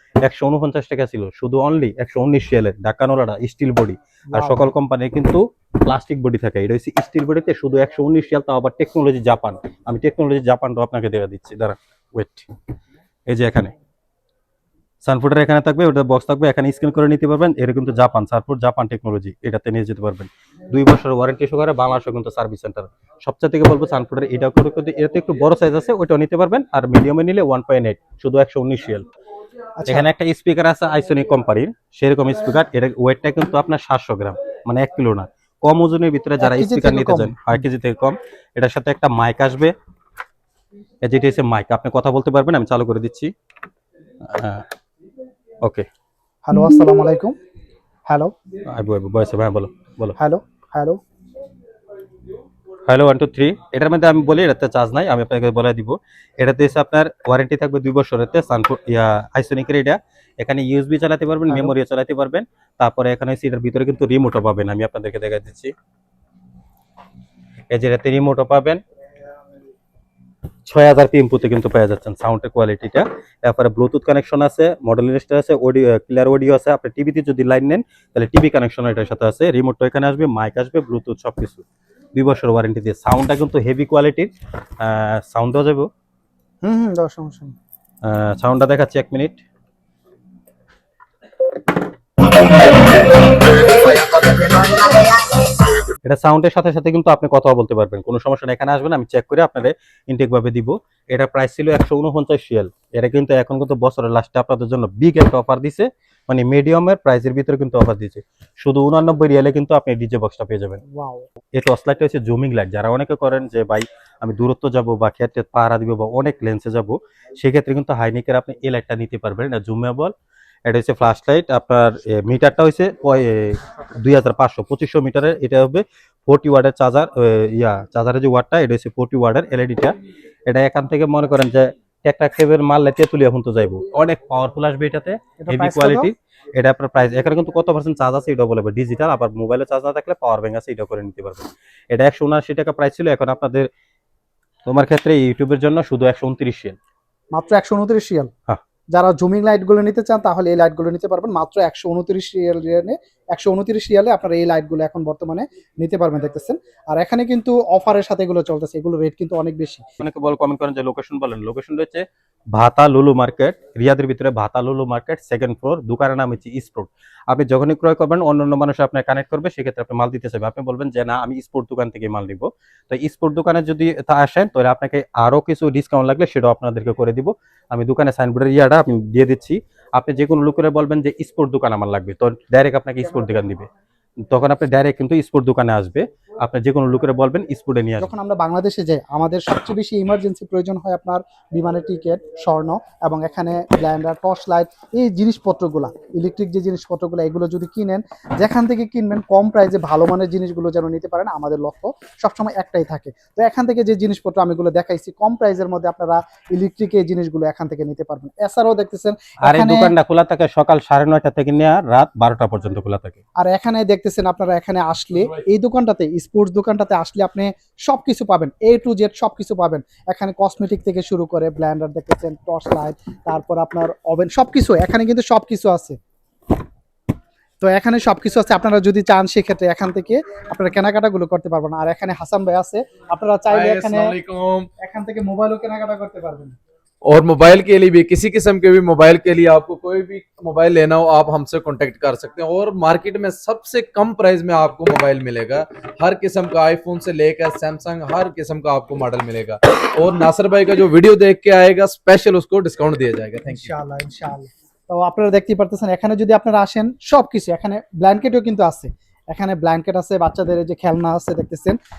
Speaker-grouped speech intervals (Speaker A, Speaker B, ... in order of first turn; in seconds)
Speaker A: 0.2-12.5, 13.3-13.7, 15.0-29.1, 29.9-39.7, 41.0-43.3, 44.2-44.6, 48.7-50.1, 52.9-65.7, 67.7-68.8, 70.7-85.9, 88.0-89.4, 93.9-95.2, 96.0-110.8, 111.5-120.1, 120.7-129.9, 130.5-143.7, 144.7-146.8, 160.0-183.7, 184.3-188.1, 209.4-213.2
Speaker B: 4.3-4.7, 29.8-30.1, 36.4-37.4, 46.5-47.3, 48.1-48.3, 50.2-51.0, 61.5-61.7, 86.6-87.5, 110.9-111.3, 135.4-136.1, 147.3-148.3, 148.9-159.8, 188.0-209.9, 213.4-226.0, 227.6-234.1, 234.8-236.6, 253.5-261.8
Speaker C: 233.5-234.7, 237.0-253.7